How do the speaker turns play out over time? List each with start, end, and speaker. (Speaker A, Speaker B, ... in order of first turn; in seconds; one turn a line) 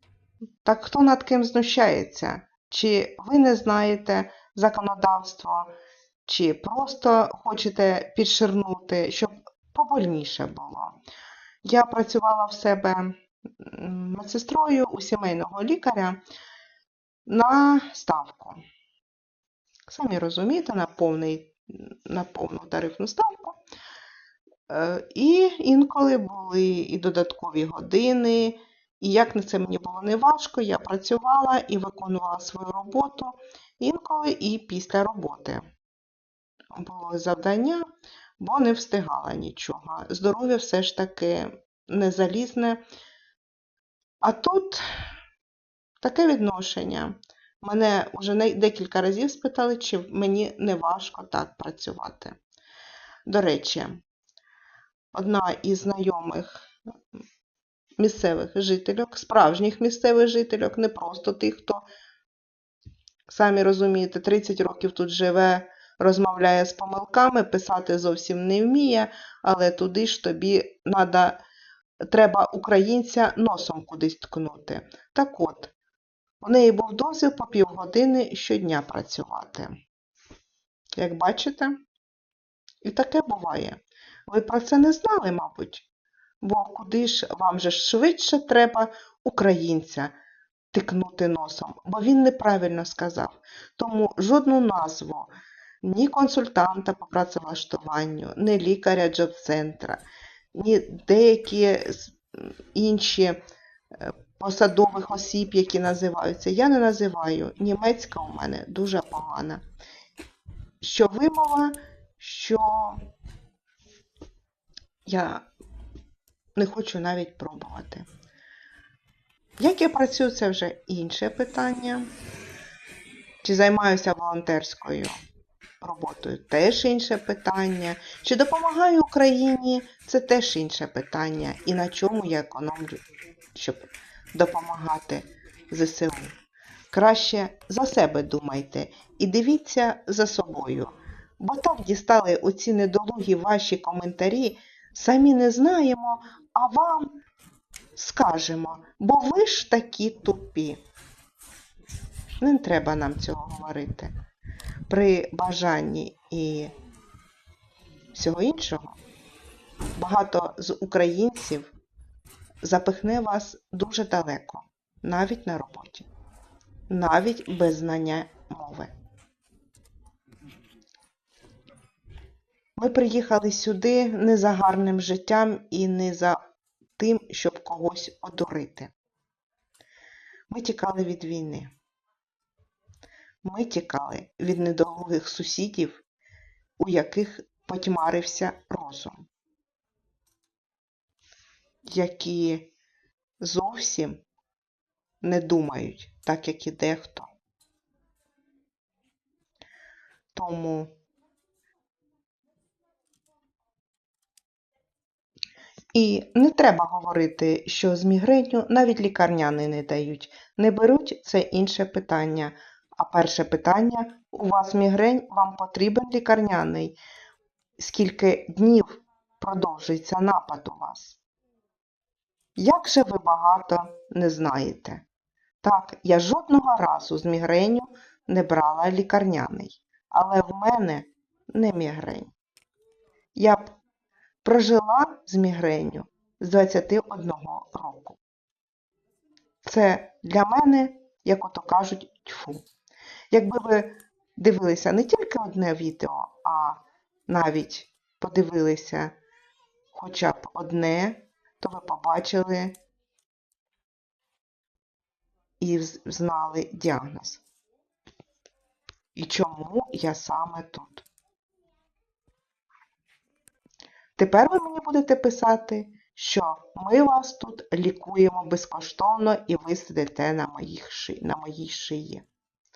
Speaker A: 0.6-5.7
Speaker A: 6.2-11.0
Speaker A: 11.6-16.2
Speaker A: 17.2-18.6
Speaker A: 19.9-23.6
Speaker A: 24.7-35.6
Speaker A: 36.7-37.8
Speaker A: 38.4-42.8
Speaker A: 44.2-44.8
Speaker A: 46.0-52.4
Speaker A: 53.2-54.0
Speaker A: 55.1-56.6
Speaker A: 58.0-61.8
Speaker A: 63.3-71.4
Speaker A: 72.1-75.7
Speaker A: 76.4-79.7
Speaker A: 81.0-81.8
Speaker A: 82.8-85.9
Speaker A: 86.4-90.1
Speaker A: 90.7-95.3
Speaker A: 95.8-103.4
Speaker A: 104.0-109.6
Speaker A: 110.8-113.0
Speaker A: 115.0-115.5
Speaker A: 116.5-118.1
Speaker A: 119.6-122.1
Speaker A: 123.4-125.2
Speaker A: 125.8-136.4
Speaker A: 136.9-147.2
Speaker A: 147.9-150.8
Speaker A: 152.4-154.1
Speaker A: 154.9-156.7
Speaker A: 158.1-159.0
Speaker A: 159.9-161.7
Speaker A: 162.6-166.1
Speaker A: 166.9-168.9
Speaker A: 172.8-176.4
Speaker A: 177.0-178.9
Speaker A: 180.5-181.7
Speaker A: 183.4-186.0
Speaker A: 186.8-189.3
Speaker A: 191.9-192.7
Speaker A: 193.4-194.2
Speaker A: 195.2-197.3
Speaker A: 200.3-200.9
Speaker A: 205.9-216.9
Speaker A: 217.8-221.2
Speaker A: 222.6-225.0
Speaker A: 225.6-232.3
Speaker A: 233.3-233.8
Speaker A: 234.4-238.2
Speaker A: 239.6-242.7
Speaker A: 243.3-249.1
Speaker A: 249.9-252.8
Speaker A: 255.6-257.4
Speaker A: 259.1-261.1
Speaker A: 264.1-272.2